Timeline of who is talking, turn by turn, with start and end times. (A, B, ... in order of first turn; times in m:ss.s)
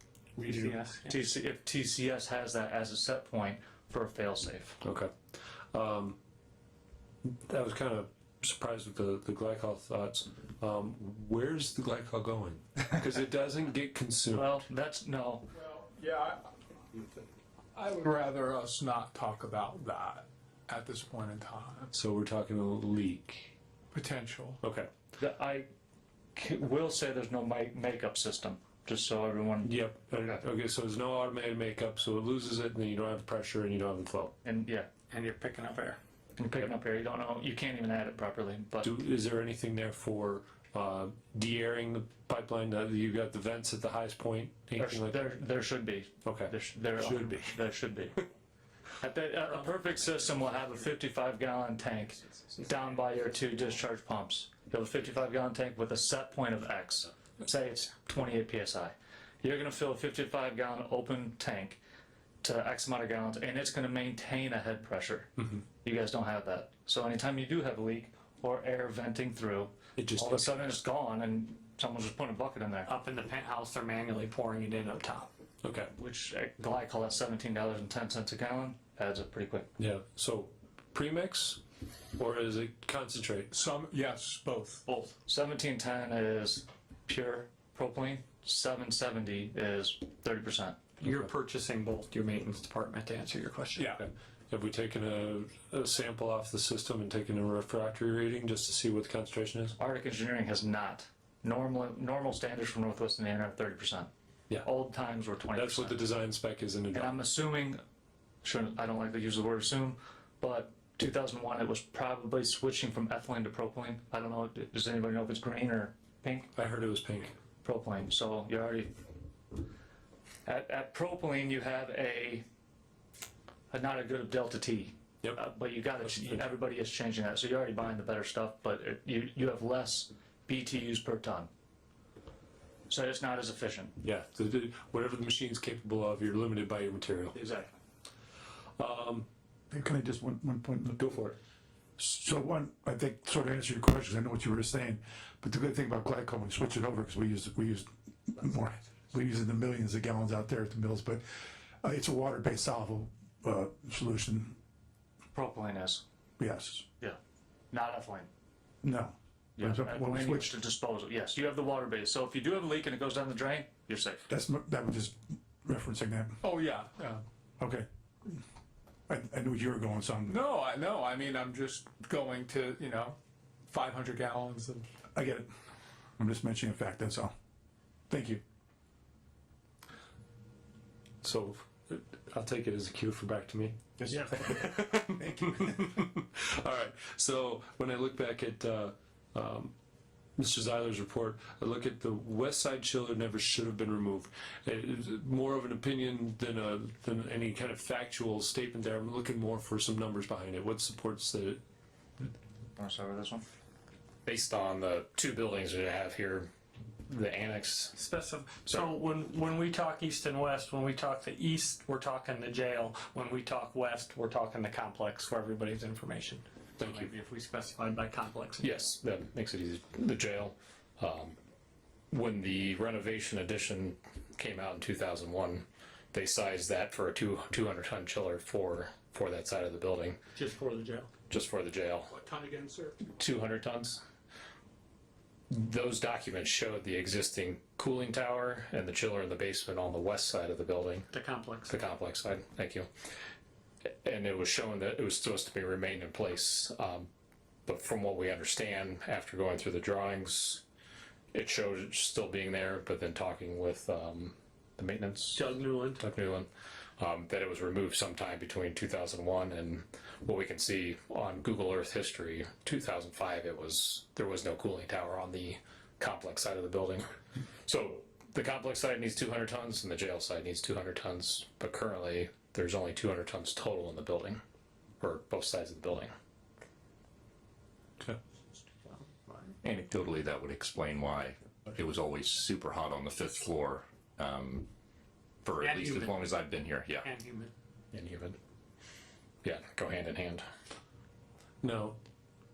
0:00.4-0:01.2 A
0:00.5-0:04.8 B
0:04.8-0:05.1 C
0:05.7-0:06.2 C
0:07.2-0:14.6 C
0:14.3-0:15.4 B
0:15.6-0:16.5 D
0:17.7-0:21.9 D
0:21.9-0:23.5 C
0:23.9-0:24.6 D
0:24.6-0:24.9 C
0:25.2-0:25.7 B
0:26.4-0:29.7 B
0:29.6-0:34.3 C
0:34.4-0:34.9 B
0:35.1-0:36.0 A
0:36.4-0:38.9 B
0:38.8-0:45.2 C
0:44.8-0:48.2 B
0:46.2-0:47.7 C
0:49.0-1:01.8 B
0:49.5-0:50.8 A
0:52.5-0:53.1 A
1:02.4-1:05.3 B
1:05.8-1:12.9 B
1:10.0-1:10.6 C
1:12.9-1:15.3 A
1:15.6-1:15.9 C
1:16.0-1:19.7 B
1:19.8-1:21.6 C
1:22.2-1:23.5 C
1:23.5-1:24.8 D
1:24.9-1:30.8 B
1:31.0-1:34.0 A
1:33.8-1:34.0 D
1:33.8-1:39.8 C
1:39.8-1:44.1 B
1:44.6-1:46.0 B
1:45.5-1:47.2 C
1:46.9-1:47.8 B
1:48.4-1:56.5 B
1:56.6-1:57.4 C
1:57.6-1:59.0 B
2:00.5-2:02.4 B
2:03.7-2:11.5 B
2:06.1-2:06.4 C
2:12.9-2:13.9 B
2:14.0-2:17.7 C
2:18.8-2:19.3 C
2:19.7-2:21.0 E
2:21.0-2:21.4 C
2:22.0-2:31.2 E
2:31.8-2:34.6 E
2:35.3-2:36.0 B
2:36.4-2:36.8 E
2:37.7-2:38.3 B
2:38.8-2:40.6 E
2:39.6-2:44.2 B
2:44.3-2:46.4 E
2:46.4-2:47.2 D
2:47.6-2:48.4 E
2:49.1-2:50.4 E
2:50.3-2:54.9 D
2:55.2-2:55.5 E
2:56.2-2:57.3 E
2:58.1-2:58.4 E
3:01.2-3:09.7 C
3:10.4-3:21.6 C
3:22.8-3:23.4 B
3:24.2-3:26.5 F
3:27.1-3:28.0 F
3:28.0-3:38.8 A
3:36.8-3:37.1 C
3:38.6-3:41.4 F
3:42.1-3:50.2 F
3:50.4-3:51.1 A
3:51.3-3:52.2 F
3:52.2-3:53.0 D
3:53.1-3:54.0 F
3:55.5-4:01.1 F
4:01.1-4:01.7 A
4:01.7-4:02.9 F
4:04.0-4:07.1 F
4:07.7-4:10.6 F
4:11.3-4:15.5 F
4:15.4-4:16.0 A
4:16.0-4:27.0 F
4:27.7-4:34.4 F
4:35.0-4:36.1 F
4:39.3-4:39.5 A
4:39.6-4:44.7 G
4:45.4-4:47.1 G
4:45.6-4:46.3 A
4:47.0-4:47.5 A
4:47.9-4:48.4 F
4:49.4-4:50.4 F
4:51.6-4:52.0 C